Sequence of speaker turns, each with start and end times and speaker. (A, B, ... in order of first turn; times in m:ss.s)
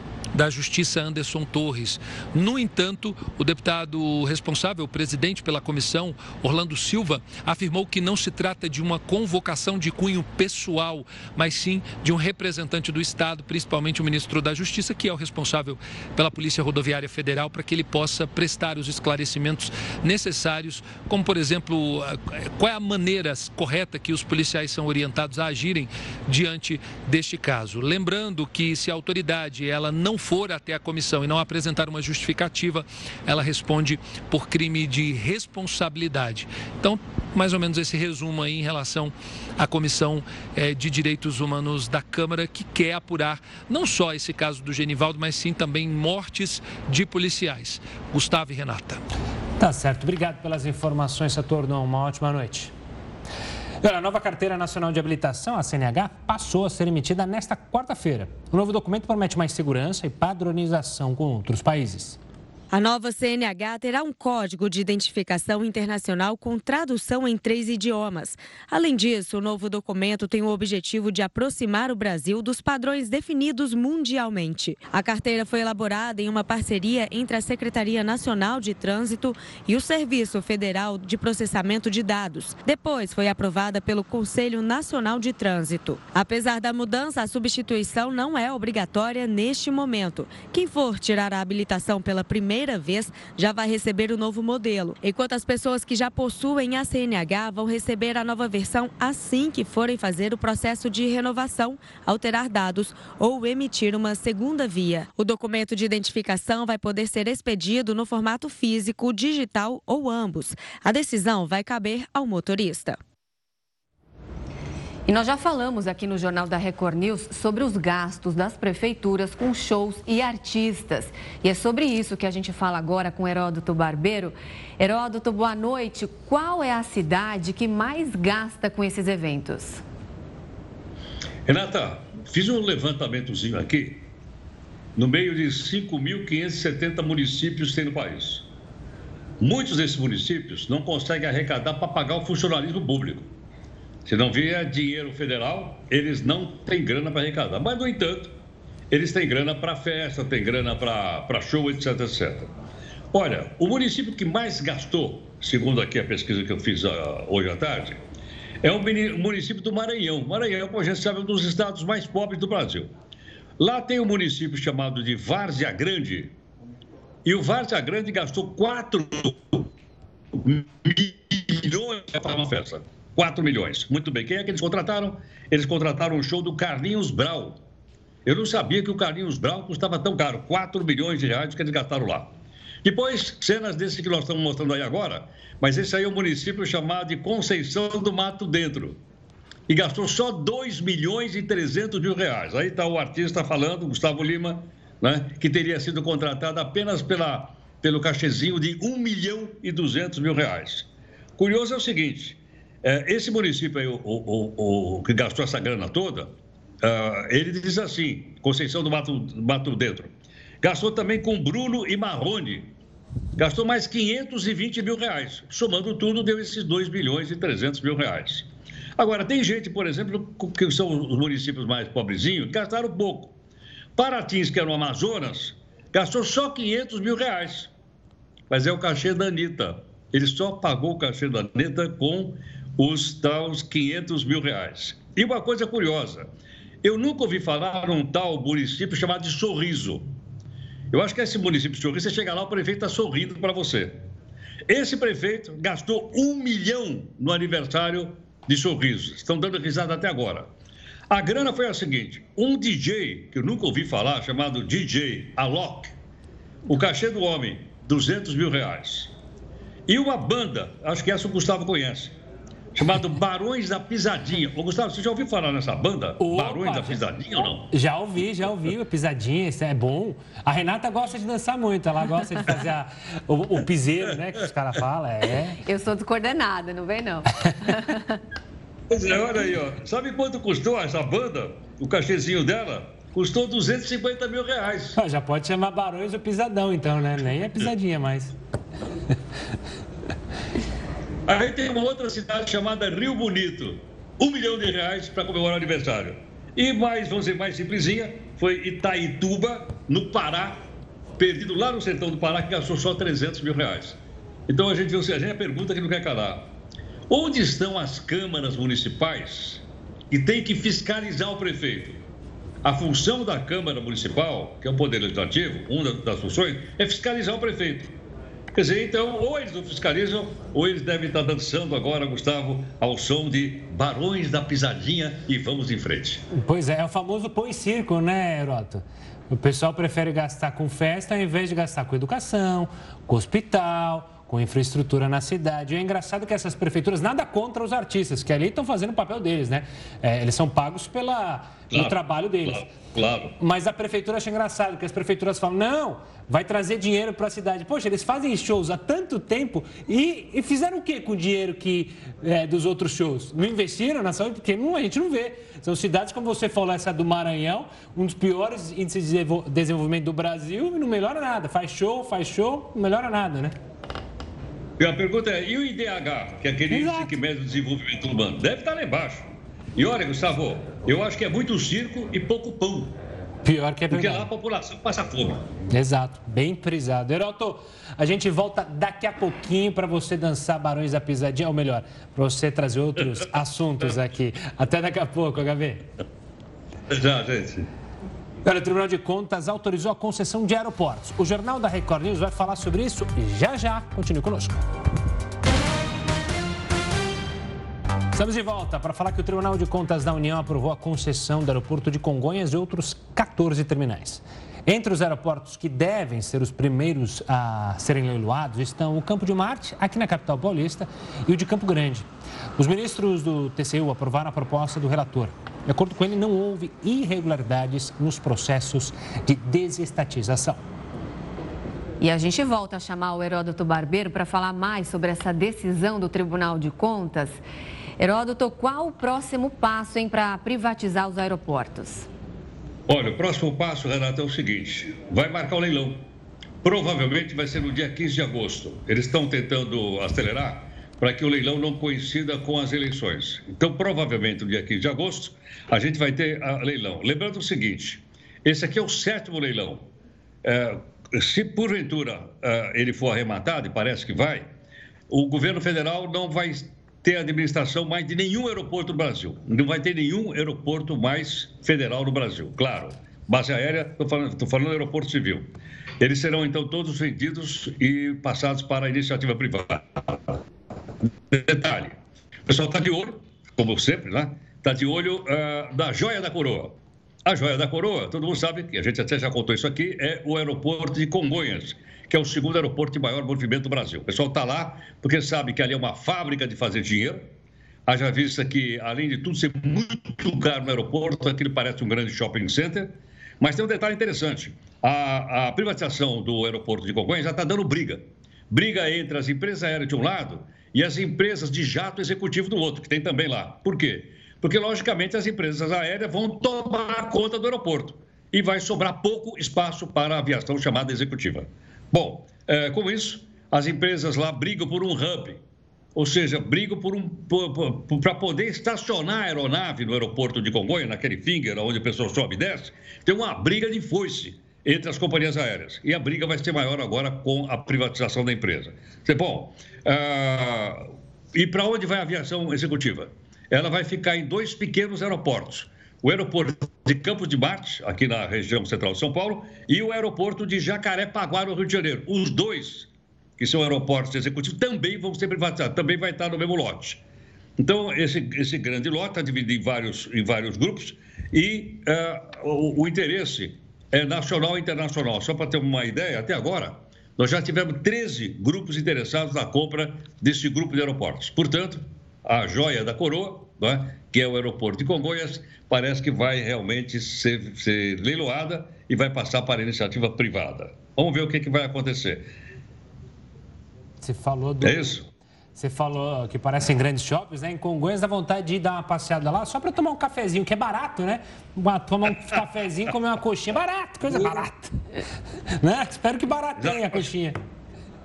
0:00.3-0:49.0 A
0:49.6-0:52.7 B
0:53.8-1:02.2 B
1:02.7-1:53.0 C
1:55.1-2:09.8 D
2:11.5-2:14.0 E
2:15.0-2:18.5 E
2:19.4-2:23.3 E
2:24.1-2:28.4 E
2:28.9-2:32.5 E
2:33.1-2:38.0 E
2:38.6-2:42.9 E
2:43.6-2:46.3 E
2:47.2-2:49.7 E
2:50.3-2:57.6 E
2:58.3-3:02.3 E
3:02.8-3:09.0 E
3:09.7-3:20.9 E
3:21.4-3:32.7 E
3:33.4-3:43.3 E
3:44.0-3:47.7 E
3:48.5-3:56.3 E
3:56.8-4:00.1 E
4:00.9-4:04.0 E
4:04.7-4:10.5 E
4:11.1-4:15.9 E
4:16.7-4:19.1 E
4:19.9-4:22.2 E
4:22.8-4:27.7 E
4:26.2-4:27.0 B
4:27.7-4:35.6 B
4:35.6-4:38.2 D
4:38.9-4:45.0 E
4:45.0-4:48.4 B
4:51.3-5:00.6 E
5:01.2-5:06.5 E
5:07.1-5:12.0 E
5:12.6-5:18.0 E
5:18.6-5:26.2 E
5:26.3-5:42.7 B
5:41.7-5:43.3 E
5:43.4-6:03.6 B
6:04.8-6:13.0 E
6:06.7-6:07.2 B
6:13.4-6:14.3 B
6:13.9-6:15.4 E
6:15.7-6:25.9 B
6:26.9-6:27.7 E
6:28.4-6:34.6 B
6:38.1-7:00.6 B
7:02.0-7:07.4 D
7:08.0-7:12.1 D
7:12.9-7:16.0 E
7:16.6-7:29.9 E
7:30.4-7:34.5 E
7:35.1-7:50.4 E
7:51.3-8:07.2 E
8:07.9-8:35.4 E
8:36.0-9:07.0 E
9:07.6-9:32.3 E
9:34.0-9:35.0 B
9:34.6-9:35.1 E
9:35.6-9:44.8 B
9:44.1-9:44.4 E
9:45.6-9:47.4 B
9:46.6-9:47.1 E